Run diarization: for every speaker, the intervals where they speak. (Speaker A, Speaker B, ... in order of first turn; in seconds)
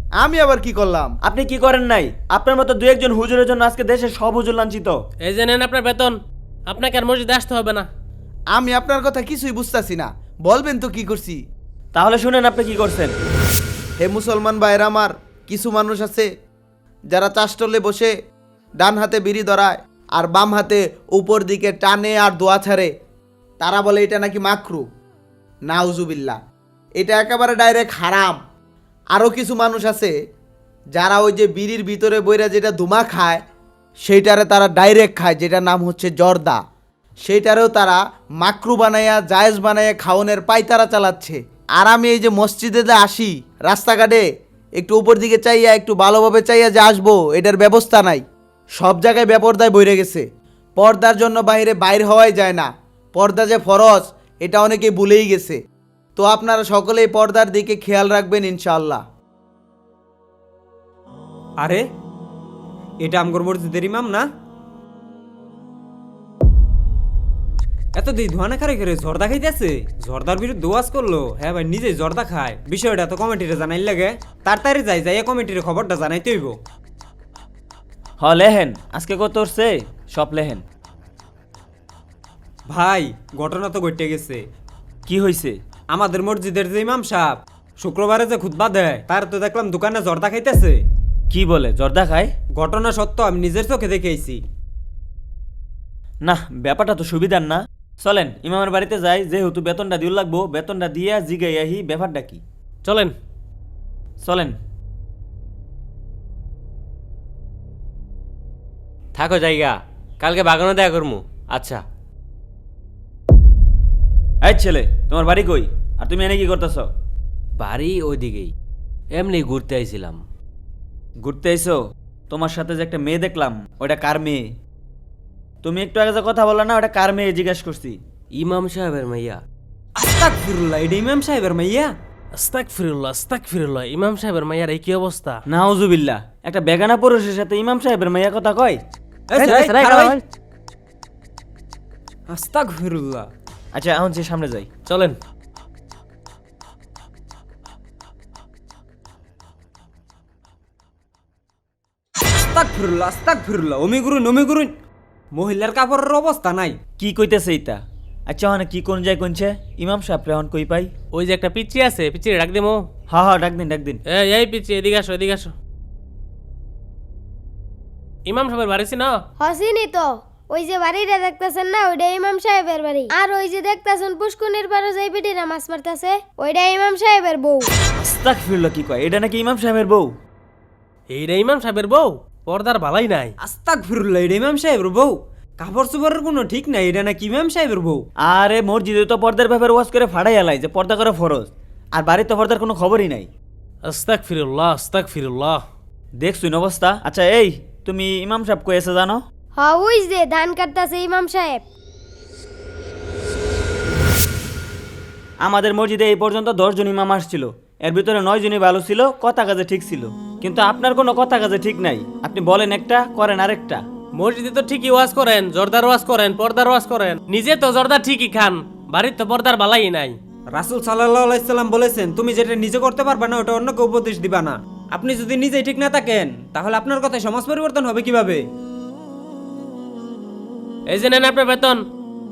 Speaker A: 0.2-1.1, 8.5-11.4, 14.0-16.3, 17.1-18.1, 18.8-22.9, 23.6-24.9, 25.7-26.4, 27.0-28.4, 29.1-30.1, 30.9-33.4, 34.0-36.6, 37.2-44.2, 44.8-48.2, 48.8-50.2, 50.8-55.6, 56.2-59.0
Speaker B: 1.2-5.0, 12.0-13.1, 78.2-80.6, 85.1-85.6, 91.3-92.3, 96.2-102.4, 104.2-104.6, 114.4-116.9, 121.2-121.8, 122.3-124.5, 125.6-128.0, 135.5-138.8, 139.6-140.1, 143.7-144.7, 157.0-160.9, 163.1-164.0, 178.0-180.1, 188.3-193.3, 196.2-199.2, 205.4-213.8
Speaker C: 5.2-7.9, 102.8-103.1, 132.4-135.4, 144.9-145.2, 161.1-162.8, 164.1-165.5, 168.3-169.2, 181.1-183.3, 193.9-195.6, 214.2-220.2, 230.9-231.8
Speaker D: 63.0-64.2, 68.0-76.6, 82.7-84.4, 85.9-90.8, 92.6-94.4, 130.0-131.9, 139.3-140.2, 142.3-143.3, 152.4-154.7, 155.3-156.8, 183.4-188.0, 220.5-228.4
Speaker E: 109.2-111.8, 117.6-118.5, 119.1-120.2, 128.4-129.4, 139.4-139.7
Speaker F: 169.4-177.7, 199.6-201.6